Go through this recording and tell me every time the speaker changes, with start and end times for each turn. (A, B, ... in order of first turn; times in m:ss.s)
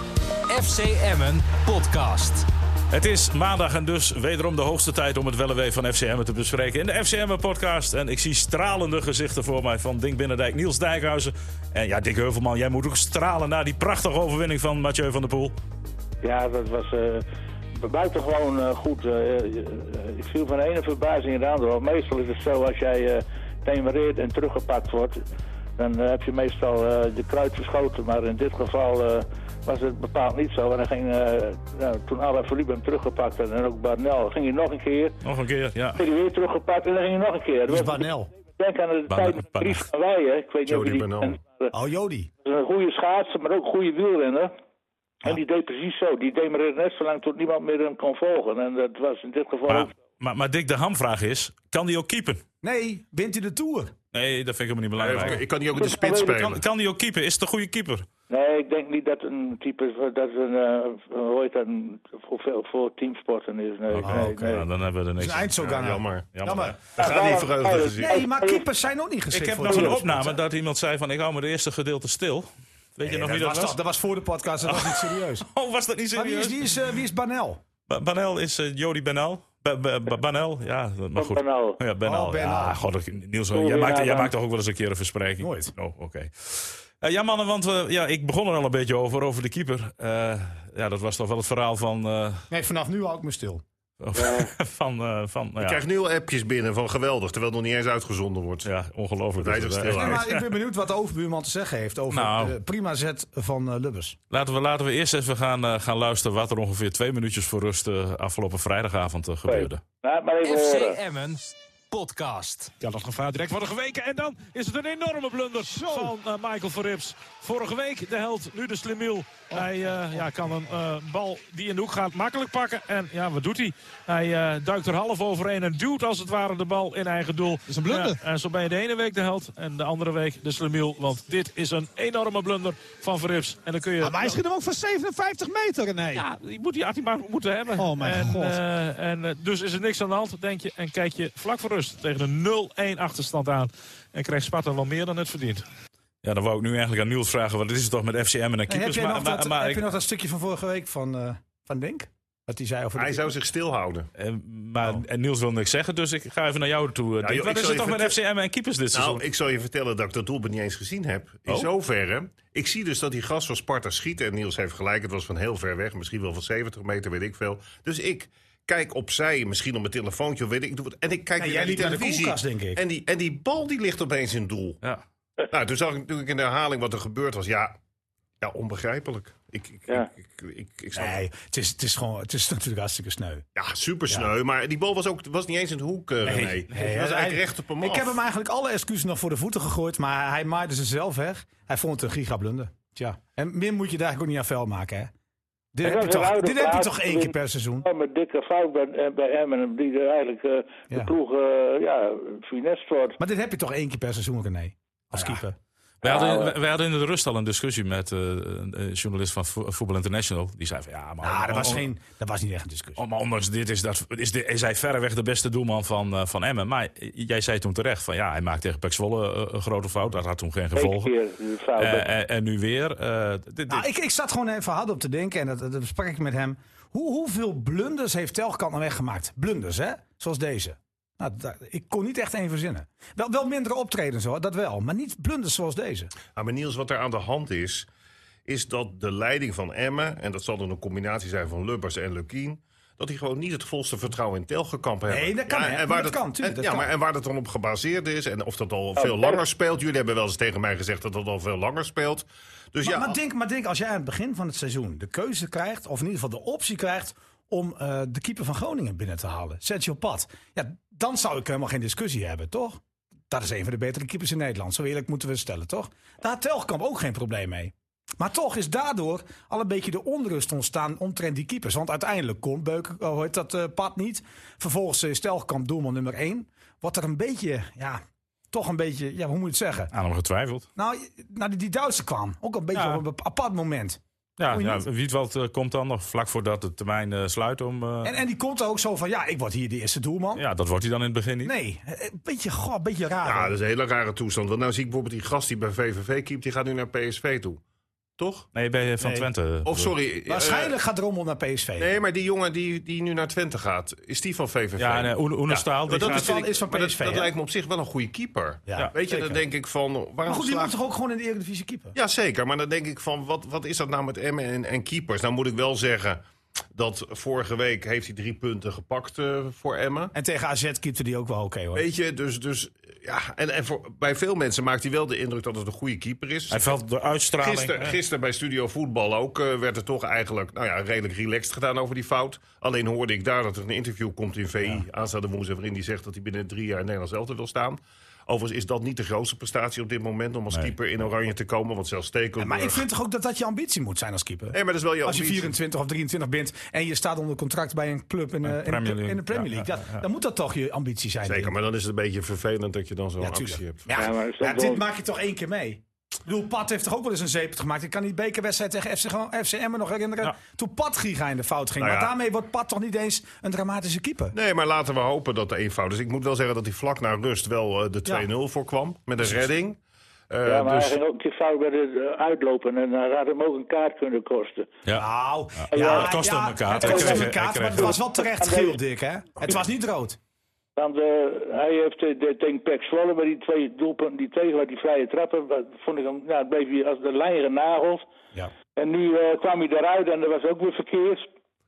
0:00.5-0:02.5 A
0:02.9-0:15.6 B
0:16.2-0:17.2 C
0:17.8-0:25.2 C
0:25.8-0:35.2 C
0:35.2-0:36.0 B
0:36.0-0:41.7 C
0:37.7-0:38.3 D
0:39.1-0:39.8 B
0:40.6-0:41.4 E
0:41.7-0:42.3 D
0:42.4-0:44.5 C
0:45.2-0:49.9 C
0:49.7-0:52.4 B
0:52.6-0:53.9 D
0:54.1-0:55.4 B
0:55.0-0:56.6 E
0:55.7-0:56.5 C
0:56.4-0:58.0 B
0:58.3-1:04.6 C
1:03.9-1:05.5 B
1:04.0-1:04.6 D
1:05.2-1:06.8 D
1:05.6-1:08.2 E
1:06.3-1:06.8 B
1:07.0-1:08.7 C
1:08.0-1:10.4 D
1:09.3-1:13.8 B
1:09.7-1:09.9 C
1:13.0-1:15.4 D
1:14.6-1:16.6 B
1:16.1-1:17.6 D
1:17.9-1:32.4 B
1:21.2-1:21.8 C
1:22.0-1:22.8 D
1:23.5-1:24.3 C
1:25.4-1:25.7 D
1:32.5-1:33.6 D
1:34.0-1:35.8 B
1:34.2-1:34.5 C
1:35.6-1:38.7 E
1:38.6-1:40.4 B
1:39.4-1:40.2 E
1:39.9-1:44.2 D
1:42.1-1:42.5 B
1:44.3-1:49.8 B
1:49.5-1:51.0 C
1:50.4-1:52.7 A
1:52.8-2:14.4 F
2:07.7-2:08.2 G
2:14.0-2:16.2 G
2:16.1-2:25.6 F
2:17.8-2:18.6 G
2:26.2-2:29.8 B
2:28.7-2:33.3 D
2:33.0-2:34.1 E
2:34.2-2:39.2 B
2:37.2-2:38.2 E
2:38.9-2:54.8 E
2:51.4-2:52.8 D
2:55.5-2:57.7 E
2:58.4-3:01.2 E
3:01.0-3:03.4 D
3:03.6-3:08.2 E
3:06.2-3:15.1 D
3:15.7-3:17.9 D
3:15.8-3:23.2 C
3:23.2-3:25.6 D
3:25.1-3:25.4 B
3:26.0-3:31.9 B
3:26.0-3:26.5 C
3:31.2-3:33.0 D
3:33.0-3:41.1 B
3:40.8-3:42.1 C
3:41.8-3:43.9 B
3:43.7-3:56.1 D
3:56.3-3:57.9 E
3:58.5-4:13.2 E
4:05.1-4:06.9 D
4:09.0-4:09.4 C
4:12.8-4:38.0 D
4:38.5-4:39.9 D
4:39.9-4:40.7 B
4:40.8-4:44.8 D
4:42.7-4:43.0 B
4:44.4-4:48.2 B
4:48.0-4:50.4 D
4:50.4-4:51.5 B
4:51.4-4:53.5 D
4:53.2-4:57.6 E
4:58.2-4:58.5 E
4:58.5-4:59.9 B
4:59.0-4:59.3 D
4:59.6-5:00.8 E
5:00.3-5:01.9 D
5:01.8-5:10.8 E
5:04.8-5:06.4 B
5:05.9-5:07.3 D
5:08.7-5:09.4 D
5:10.2-5:12.0 D
5:11.9-5:16.2 E
5:16.7-5:20.1 E
5:20.1-5:21.8 D
5:21.7-5:26.8 E
5:26.5-5:28.0 B
5:27.4-5:42.8 E
5:42.4-5:51.5 D
5:44.5-5:45.5 E
5:48.4-5:50.0 B
5:51.2-5:54.1 E
5:53.2-6:04.4 D
5:53.9-5:54.8 C
6:01.8-6:02.2 E
6:04.3-6:09.8 E
6:10.3-6:11.0 E
6:10.4-6:14.7 C
6:14.9-6:20.2 D
6:15.6-6:18.0 B
6:15.7-6:16.1 C
6:16.7-6:18.8 C
6:20.8-6:28.0 C
6:28.8-6:31.3 C